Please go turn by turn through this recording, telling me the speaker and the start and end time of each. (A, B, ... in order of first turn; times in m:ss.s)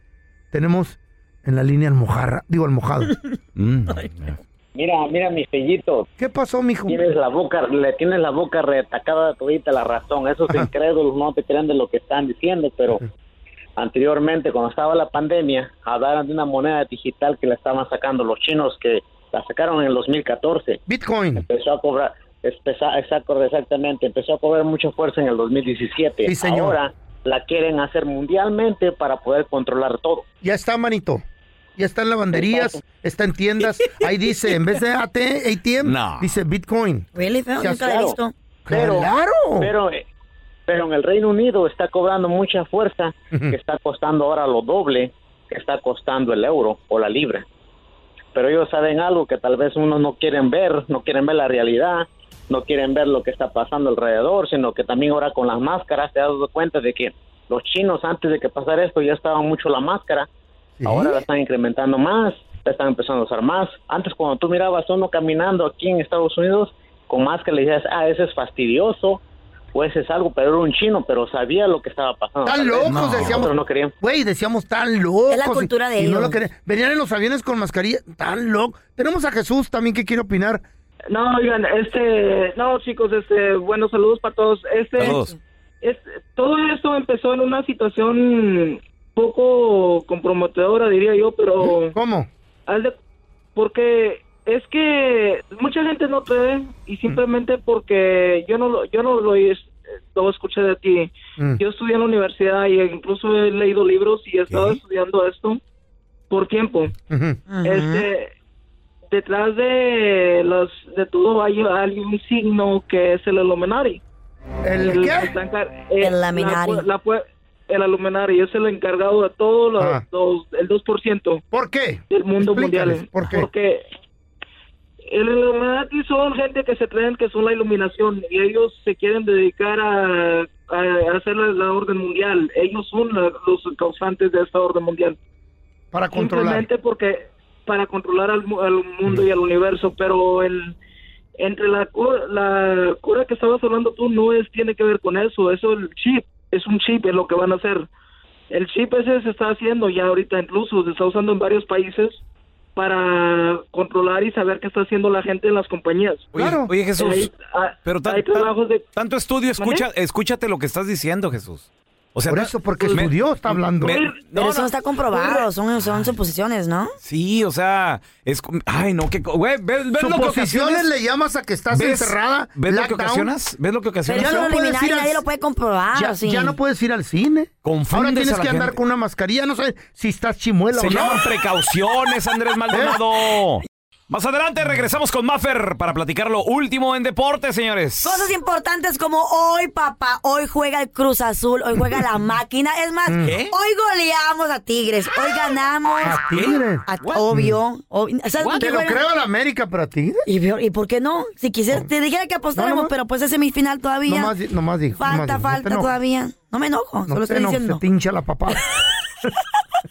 0:00.5-0:03.1 A
0:03.6-0:04.4 B
0:04.8-0:06.1 C
0:06.2-0:07.0 A
0:06.9-0:13.0 C
0:13.8-0:20.8 C
0:20.8-0:21.4 A
0:21.4-0:30.2 C
0:26.2-0:26.8 A
0:30.4-0:31.2 A
0:31.8-0:37.1 A
0:32.3-0:32.7 C
0:35.8-0:36.3 B
0:37.1-0:38.3 D
0:37.6-0:37.9 A
0:37.6-0:38.1 C
0:38.7-0:39.7 A
0:38.7-0:40.0 C
0:40.7-0:47.4 C
0:48.3-1:00.3 C
1:00.8-1:01.2 A
1:00.8-1:09.2 C
1:09.7-1:13.9 C
1:12.4-1:20.6 A
1:12.8-1:13.5 B
1:15.3-1:16.4 D
1:21.1-1:25.2 E
1:25.0-1:25.3 B
1:25.1-1:25.3 D
1:25.8-1:31.9 E
1:31.6-1:32.3 A
1:32.7-1:33.0 E
1:33.6-1:45.6 E
1:44.5-1:44.8 B
1:46.3-1:46.9 E
1:47.1-1:47.4 A
1:47.5-1:48.1 D
1:47.6-1:48.3 E
1:49.1-1:54.0 E
1:54.6-1:55.3 A
1:54.8-2:01.4 E
1:56.0-1:56.9 D
2:01.5-2:03.5 A
2:02.1-2:03.8 E
2:05.1-2:15.2 E
2:15.9-2:16.6 A
2:16.1-2:20.8 E
2:21.4-2:27.9 E
2:28.5-2:32.2 E
2:32.8-2:36.3 E
2:36.3-2:37.3 B
2:36.4-2:36.7 A
2:37.0-2:38.8 E
2:37.8-2:43.1 B
2:39.6-2:39.8 E
2:42.3-2:44.0 A
2:43.8-2:44.7 B
2:43.8-2:44.2 E
2:44.3-2:46.9 D
2:45.1-2:45.4 E
2:47.0-2:50.9 B
2:50.0-2:53.3 A
2:51.7-2:54.4 B
2:54.0-2:56.6 D
2:54.1-2:55.2 A
2:55.9-3:01.3 A
2:57.6-2:58.8 B
3:00.7-3:08.3 B
3:02.7-3:03.0 A
3:08.0-3:19.0 D
3:13.1-3:13.4 A
3:13.2-3:13.5 B
3:16.0-3:17.6 A
3:16.4-3:17.2 B
3:18.6-3:20.2 A
3:20.3-3:24.3 D
3:22.5-3:22.9 A
3:24.0-3:25.9 A
3:25.0-3:27.8 D
3:27.1-3:28.6 A